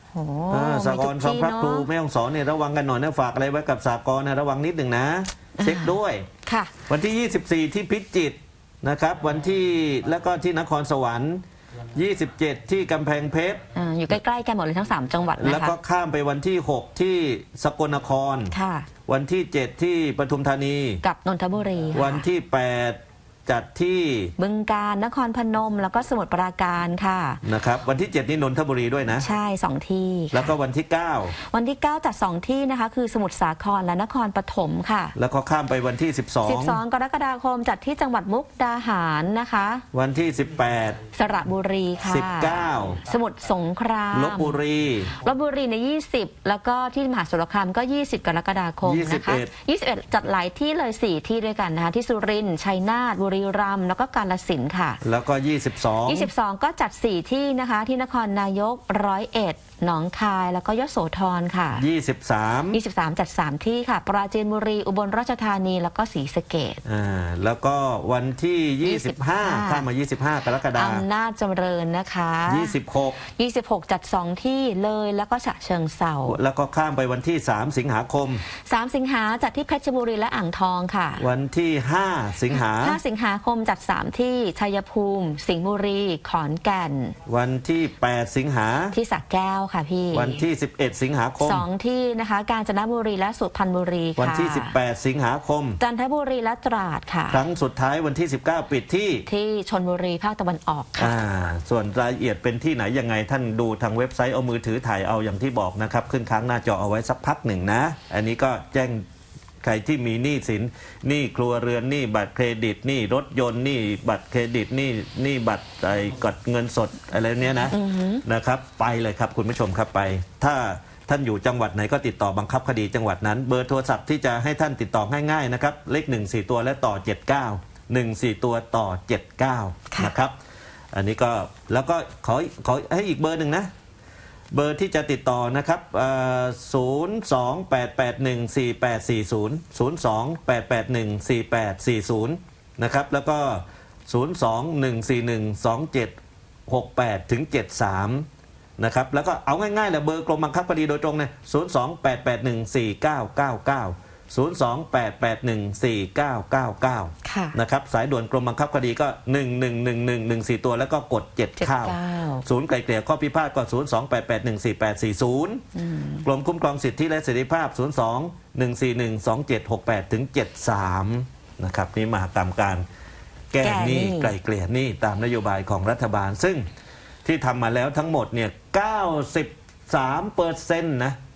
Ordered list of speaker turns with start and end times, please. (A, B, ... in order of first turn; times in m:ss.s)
0:00.1-0:01.9 A
0:00.5-0:06.3 B
0:05.6-0:06.7 A
0:06.9-0:11.4 B
0:11.9-0:13.6 B
0:13.7-0:15.8 A
0:15.4-0:18.5 B
0:18.5-0:18.9 A
0:19.1-0:21.0 B
0:21.0-0:22.3 A
0:21.9-0:24.3 B
0:24.4-0:27.4 A
0:27.4-0:29.2 B
0:29.2-0:30.5 A
0:30.3-0:31.4 B
0:31.4-0:35.2 A
0:35.2-0:36.8 B
0:36.4-0:39.8 A
0:39.9-0:41.0 B
0:41.1-0:55.0 A
0:42.0-0:43.0 B
0:44.1-0:45.1 B
0:48.8-0:49.5 B
0:55.0-0:56.3 B
0:56.0-1:01.8 A
1:01.8-1:02.8 B
1:02.7-1:06.8 A
1:06.8-1:11.0 B
1:08.8-1:09.9 A
1:10.7-1:16.4 A
1:12.5-1:13.2 B
1:16.3-1:18.4 B
1:18.6-1:21.2 A
1:21.2-1:23.0 B
1:22.5-1:27.2 A
1:27.2-1:28.9 B
1:28.9-1:30.4 A
1:30.1-1:31.6 B
1:31.4-1:34.7 A
1:34.2-1:35.8 B
1:35.8-1:37.4 A
1:37.3-1:39.2 B
1:39.2-1:41.2 A
1:41.0-1:49.0 B
1:49.6-2:10.3 B
1:57.7-1:58.2 A
2:10.9-2:13.7 B
2:14.5-2:26.1 B
2:26.7-2:28.2 B
2:28.8-2:45.6 B
2:37.2-2:37.6 A
2:41.6-2:42.4 A
2:45.7-2:46.2 A
2:46.2-2:52.8 B
2:53.5-2:56.6 B
2:53.6-2:54.3 A
2:57.2-3:01.2 B